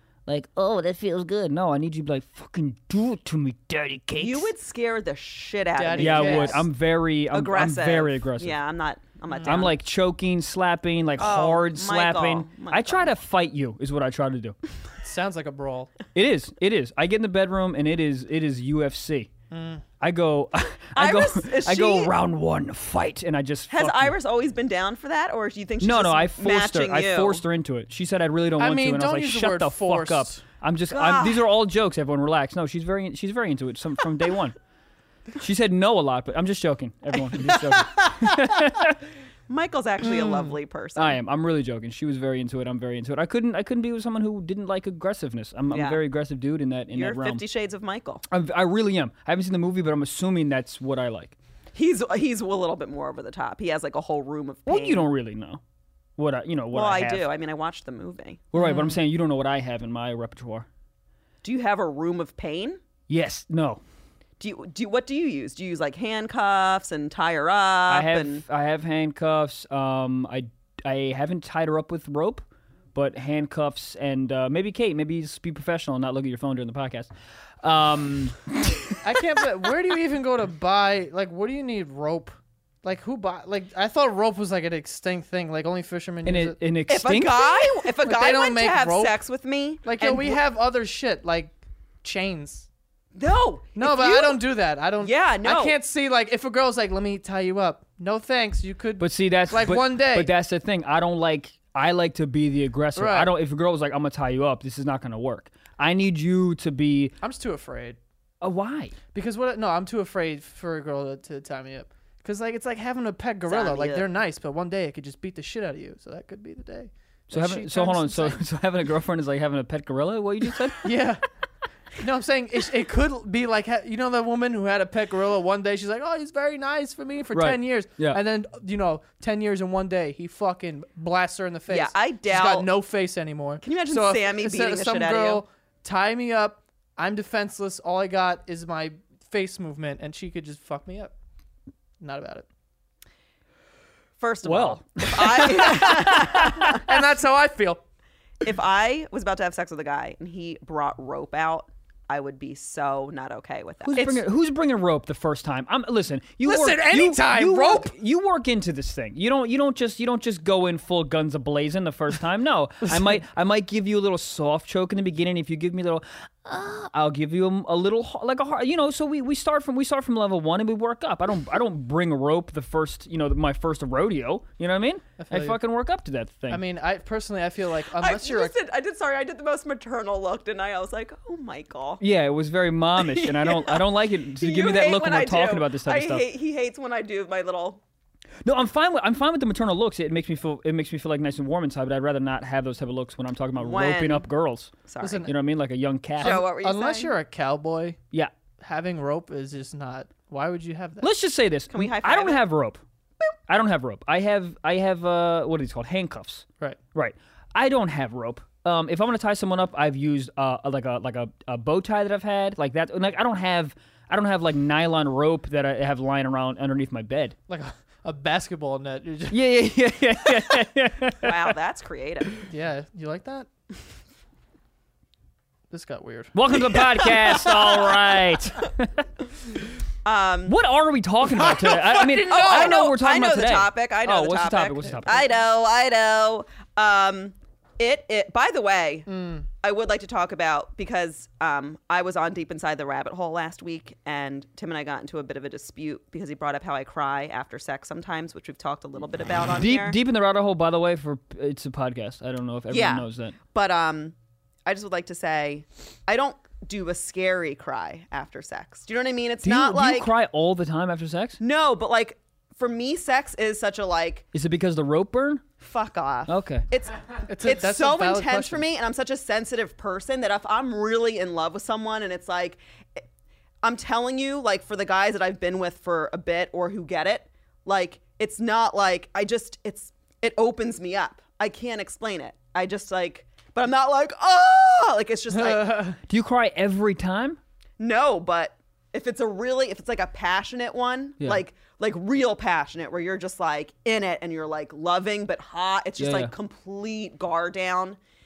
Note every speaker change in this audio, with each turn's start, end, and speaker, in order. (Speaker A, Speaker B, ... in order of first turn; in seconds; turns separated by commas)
Speaker A: 0.3-4.5, Speaker B: 4.2-6.7, Speaker C: 5.7-6.7, Speaker A: 6.0-8.6, Speaker B: 7.3-9.8, Speaker C: 9.3-9.6, Speaker A: 9.4-14.6, Speaker B: 11.2-13.1, Speaker C: 15.0-15.9, Speaker A: 16.1-19.3, Speaker C: 19.5-19.8, Speaker A: 20.0-24.1, Speaker B: 20.9-22.1, Speaker B: 23.7-27.4, Speaker A: 25.8-34.5, Speaker C: 28.6-30.4, Speaker B: 30.9-31.3, Speaker A: 35.4-39.0, Speaker C: 37.4-38.5, Speaker B: 39.5-41.1, Speaker A: 41.0-47.4, Speaker B: 45.7-46.0, Speaker B: 46.9-48.2, Speaker A: 48.3-51.4, Speaker B: 51.7-55.0, Speaker A: 54.6-55.6, Speaker A: 56.2-57.3, Speaker B: 56.7-58.5, Speaker A: 58.5-60.7, Speaker B: 61.4-62.8, Speaker A: 63.1-63.8, Speaker B: 64.4-68.4, Speaker A: 67.9-77.1, Speaker A: 77.6-79.0, Speaker C: 79.0-86.5, Speaker A: 86.2-87.8, Speaker B: 86.9-90.4, Speaker C: 88.0-89.1, Speaker C: 89.8-92.7, Speaker B: 93.1-94.4, Speaker C: 93.8-100.3, Speaker B: 95.0-95.8, Speaker A: 99.0-107.1, Speaker C: 103.0-103.3, Speaker C: 107.2-108.0, Speaker A: 108.4-109.0, Speaker C: 109.1-118.4, Speaker B: 113.5-114.0, Speaker A: 117.3-120.9, Speaker C: 120.8-121.2, Speaker C: 122.0-141.1, Speaker A: 127.3-128.2, Speaker B: 131.7-132.7, Speaker B: 133.6-135.4, Speaker C: 142.0-142.4, Speaker B: 144.2-146.8, Speaker A: 144.4-146.8, Speaker C: 145.5-147.8, Speaker B: 148.4-154.2, Speaker A: 153.8-176.6, Speaker C: 156.4-157.9, Speaker C: 175.2-175.6, Speaker C: 176.5-178.5, Speaker B: 178.0-182.0, Speaker A: 182.0-186.2, Speaker B: 183.0-187.8, Speaker A: 188.4-194.7, Speaker B: 193.6-194.2, Speaker B: 194.8-195.3, Speaker C: 195.0-195.3, Speaker A: 195.2-196.4, Speaker C: 196.2-198.0, Speaker B: 196.2-197.1, Speaker C: 198.6-201.1, Speaker A: 201.0-202.8, Speaker B: 201.7-202.4, Speaker A: 203.5-217.3, Speaker C: 217.5-219.3, Speaker A: 219.3-221.3, Speaker B: 221.2-222.4, Speaker C: 222.5-223.5, Speaker C: 225.7-226.8, Speaker A: 226.3-229.0, Speaker B: 230.0-230.5, Speaker A: 230.5-235.2, Speaker C: 231.3-232.8, Speaker B: 232.2-239.1, Speaker C: 239.1-239.4, Speaker B: 239.6-250.0, Speaker A: 249.5-253.3, Speaker B: 252.7-254.1, Speaker B: 254.7-260.1, Speaker A: 259.4-261.4, Speaker B: 261.4-264.2, Speaker A: 264.3-265.4, Speaker B: 265.6-273.0, Speaker A: 266.3-266.6, Speaker C: 267.3-268.6, Speaker B: 273.6-285.9, Speaker C: 285.3-286.0, Speaker A: 286.1-287.4, Speaker B: 287.8-298.0, Speaker A: 296.0-296.3